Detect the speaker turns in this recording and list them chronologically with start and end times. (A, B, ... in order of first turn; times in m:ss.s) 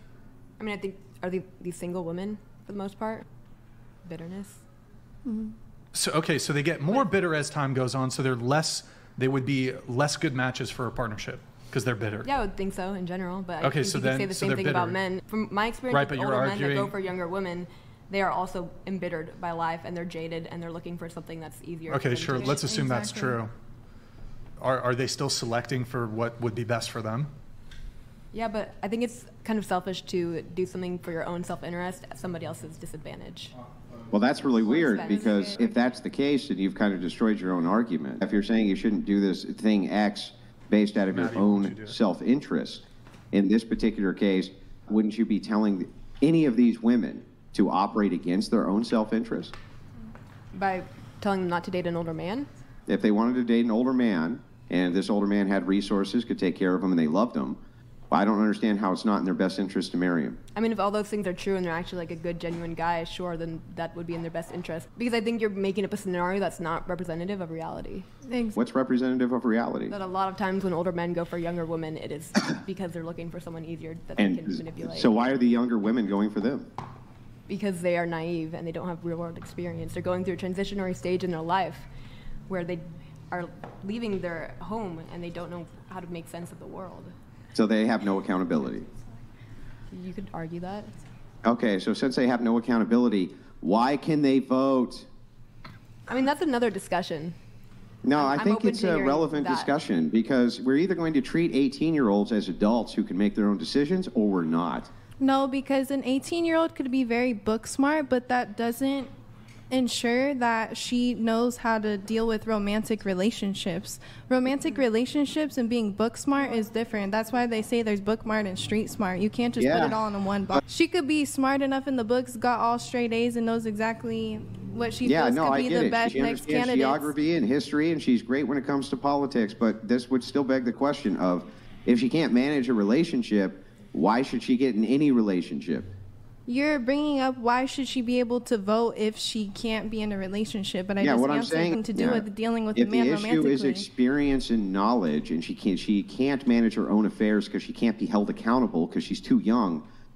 0:00.6-0:03.2 A
0:04.0-0:04.6 A
0:05.9-0:12.3 B
0:12.2-0:22.8 A
0:13.6-0:15.0 B
0:15.9-0:16.9 B
0:21.9-0:23.5 B
0:22.5-0:23.4 C
0:24.6-0:27.3 B
0:28.3-0:33.5 A
0:34.1-0:49.5 D
0:34.7-0:35.3 C
0:34.7-0:35.6 A
0:41.1-0:42.0 B
0:50.5-0:52.5 A
0:52.9-0:57.6 D
0:58.1-1:00.4 D
1:00.5-1:08.1 A
1:08.3-1:08.6 C
1:08.5-1:10.0 D
1:09.9-1:15.3 A
1:14.2-1:16.7 D
1:17.5-1:21.8 A
1:22.5-1:27.1 A
1:27.5-1:28.9 D
1:29.9-1:30.9 A
1:31.4-1:35.1 D
1:36.1-1:37.4 A
1:38.0-1:44.9 D
1:38.1-1:39.7 A
1:45.2-1:49.1 C
1:49.7-2:07.1 C
1:59.6-2:00.0 D
2:05.0-2:15.9 D
2:16.5-2:23.8 C
2:21.0-2:29.8 D